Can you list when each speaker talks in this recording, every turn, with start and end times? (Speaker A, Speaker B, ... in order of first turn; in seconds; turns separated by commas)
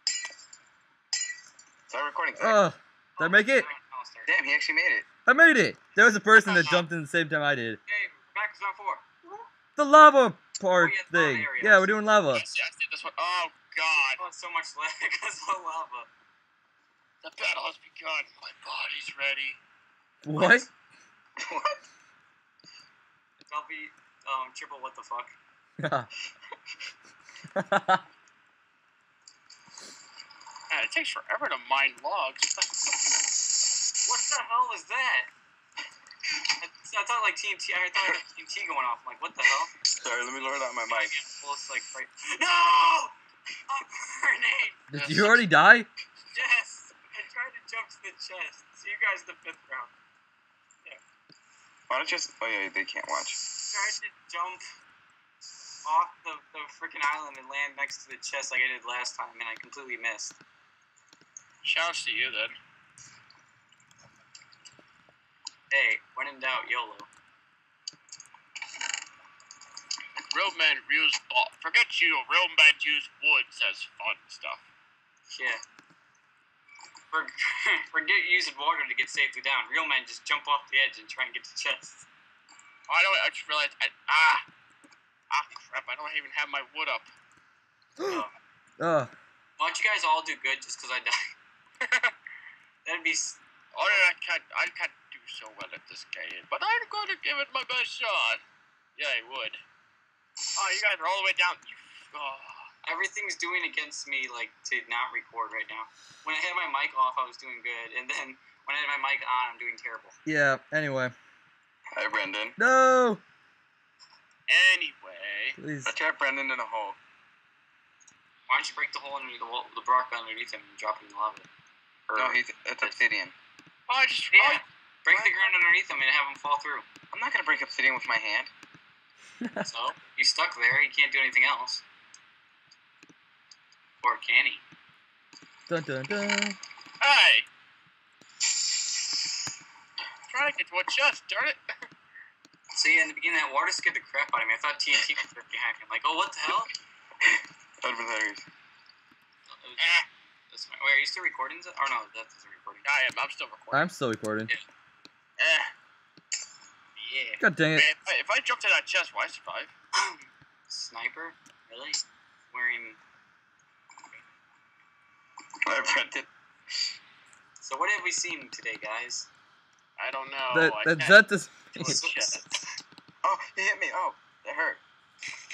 Speaker A: 1.9-2.6, Speaker B: 2.4-3.7, Speaker C: 3.2-4.3, Speaker A: 4.2-5.1, Speaker B: 5.2-7.8, Speaker D: 6.4-6.8, Speaker C: 7.9-9.4, Speaker B: 9.8-12.4, Speaker C: 10.8-11.9, Speaker D: 12.3-14.2, Speaker C: 14.0-16.1, Speaker D: 17.2-19.6, Speaker B: 20.2-20.7, Speaker C: 20.3-20.7, Speaker A: 21.4-21.8, Speaker C: 23.5-25.3, Speaker B: 25.8-26.1, Speaker B: 27.5-28.0, Speaker D: 30.7-32.7, Speaker C: 34.0-35.3, Speaker C: 36.6-39.7, Speaker A: 39.9-41.1, Speaker C: 40.9-43.1, Speaker C: 43.7-45.5, Speaker B: 44.9-45.9, Speaker C: 46.3-49.9, Speaker A: 51.9-53.4, Speaker C: 53.7-54.6, Speaker C: 55.8-60.4, Speaker D: 61.6-62.5, Speaker C: 65.7-67.1, Speaker D: 70.3-74.6, Speaker C: 75.3-75.6, Speaker C: 77.1-82.0, Speaker D: 82.9-84.4, Speaker D: 85.3-87.1, Speaker B: 88.0-88.2, Speaker C: 88.1-88.3, Speaker B: 88.8-89.1, Speaker C: 89.6-91.3, Speaker D: 91.8-92.1, Speaker C: 92.8-94.0, Speaker D: 93.7-98.4, Speaker D: 99.0-99.6, Speaker D: 100.5-102.7, Speaker C: 102.8-110.2, Speaker B: 110.2-111.1, Speaker A: 111.9-112.6, Speaker B: 112.6-113.2, Speaker D: 114.5-115.6, Speaker B: 115.6-115.9, Speaker A: 115.8-117.0, Speaker C: 118.5-121.5, Speaker C: 122.1-123.0, Speaker A: 122.1-123.3, Speaker D: 123.9-124.6, Speaker C: 124.3-126.8, Speaker A: 125.1-125.4, Speaker A: 127.1-128.5, Speaker B: 129.4-129.7, Speaker C: 129.6-131.8, Speaker C: 134.0-134.6, Speaker B: 135.7-136.6, Speaker D: 137.0-137.5, Speaker D: 140.3-141.6, Speaker C: 142.7-146.7, Speaker A: 147.2-148.4, Speaker C: 149.5-152.8, Speaker D: 149.8-150.1, Speaker D: 152.8-153.9, Speaker B: 153.7-154.5, Speaker D: 155.4-155.7, Speaker C: 157.0-157.4, Speaker B: 157.4-157.9, Speaker D: 157.7-159.7, Speaker C: 159.9-163.0, Speaker A: 165.6-166.3, Speaker C: 167.6-169.3, Speaker D: 170.0-172.4, Speaker B: 170.5-172.0, Speaker C: 171.8-172.6, Speaker A: 173.2-174.8